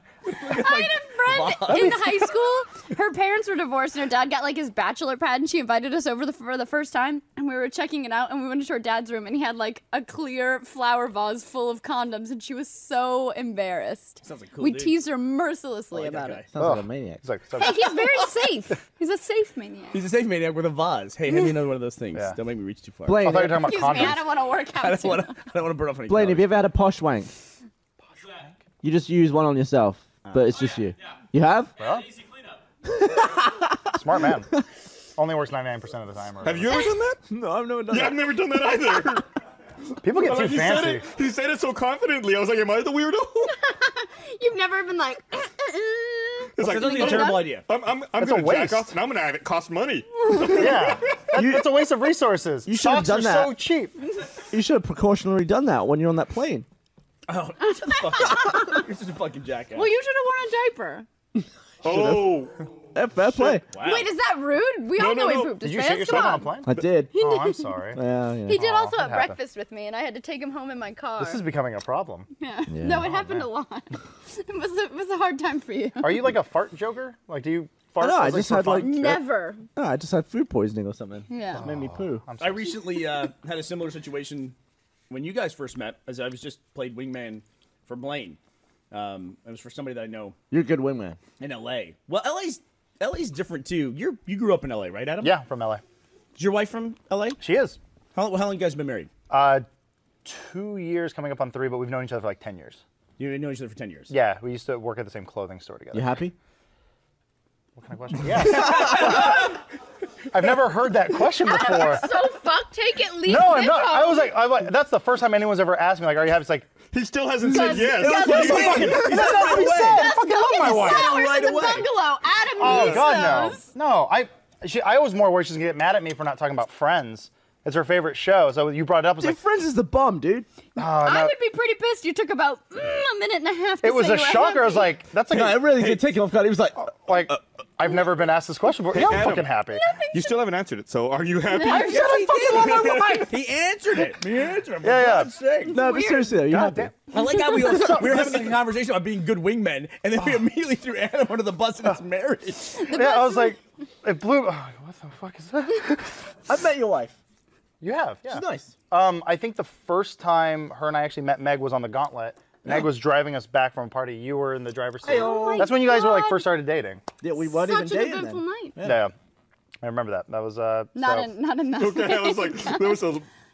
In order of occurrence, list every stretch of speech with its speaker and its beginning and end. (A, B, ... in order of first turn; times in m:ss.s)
0:00.2-0:02.2 A
0:00.5-0:16.4 B
0:14.2-0:15.0 A
0:15.9-0:16.5 A
0:16.5-0:17.2 C
0:16.6-0:18.0 D
0:17.6-0:20.0 B
0:19.9-0:23.2 A
0:23.0-0:24.1 C
0:23.1-0:24.2 D
0:23.5-0:25.4 B
0:24.8-0:26.5 A
0:26.1-0:27.3 C
0:28.2-0:28.6 D
0:28.8-0:31.8 C
0:31.8-0:32.1 D
0:32.8-0:33.9 C
0:33.9-0:34.5 D
0:35.2-0:36.8 D
0:36.4-0:37.2 E
0:37.3-0:38.5 C
0:37.9-0:39.3 E
0:40.0-0:41.1 D
0:40.1-0:43.6 E
0:43.5-0:47.6 B
0:46.6-0:51.3 E
0:46.6-0:47.6 A
0:48.2-0:48.9 D
0:50.5-0:54.0 D
0:51.3-0:51.7 C
0:52.6-0:53.5 C
0:54.5-0:56.7 C
0:57.3-0:59.9 A
0:57.9-0:58.8 B
0:59.7-1:01.0 B
1:01.4-1:02.4 C
1:01.8-1:02.6 E
1:02.9-1:03.6 C
1:03.6-1:04.1 A
1:03.8-1:06.5 B
1:05.0-1:06.4 E
1:05.6-1:09.4 D
1:06.6-1:07.2 C
1:07.1-1:07.8 B
1:07.9-1:08.6 C
1:08.5-1:11.4 B
1:11.2-1:12.3 D
1:12.4-1:16.2 B
1:12.7-1:13.1 C
1:13.1-1:13.5 D
1:16.0-1:18.9 D
1:18.0-1:19.2 C
1:18.7-1:19.6 B
1:19.7-1:22.2 C
1:21.3-1:21.6 B
1:21.5-1:22.8 D
1:22.4-1:24.5 A
1:25.1-1:28.4 A
1:28.9-1:30.4 A
1:30.5-1:31.2 C
1:31.4-1:35.4 A
1:35.2-1:35.8 D
1:36.4-1:37.4 A
1:37.4-1:37.8 D
1:38.1-1:39.1 A
1:39.3-1:39.6 D
1:40.2-1:42.8 D
1:43.2-1:44.1 A
1:44.1-1:46.2 D
1:45.9-1:46.3 C
1:47.8-1:49.5 D
1:48.8-1:49.2 A
1:50.3-1:52.1 D
1:51.4-1:54.3 B
1:53.2-1:56.7 D
1:56.8-1:59.2 E
1:57.4-2:03.7 B
1:57.5-2:00.0 C
1:58.0-2:00.0 A
1:58.0-2:01.2 D
2:00.6-2:01.9 A
2:02.6-2:09.4 D
2:02.7-2:03.1 E
2:09.2-2:10.5 C
2:10.8-2:11.4 D
2:10.8-2:15.0 B
2:13.8-2:16.0 D
2:15.3-2:16.9 C
2:16.8-2:19.8 D
2:18.9-2:19.6 E
2:19.6-2:20.4 B
2:20.1-2:23.2 E
2:21.5-2:23.2 B
2:21.6-2:25.8 A
2:22.1-2:23.2 D
2:24.8-2:25.3 D
2:25.7-2:26.4 B
2:25.7-2:26.9 C
2:26.4-2:26.9 D
2:27.1-2:32.9 A
2:27.6-2:28.5 D
2:27.8-2:28.3 C
2:32.8-2:33.6 B
2:32.8-2:36.3 D
2:36.5-2:37.2 C
2:37.8-2:47.0 D
2:38.3-2:38.7 C
2:45.0-2:45.7 C
2:45.0-2:46.5 B
2:47.2-2:49.0 C
2:47.4-2:48.8 B
2:48.8-2:49.1 D
2:49.8-2:51.3 D
2:50.9-2:53.0 B
2:51.8-2:53.3 E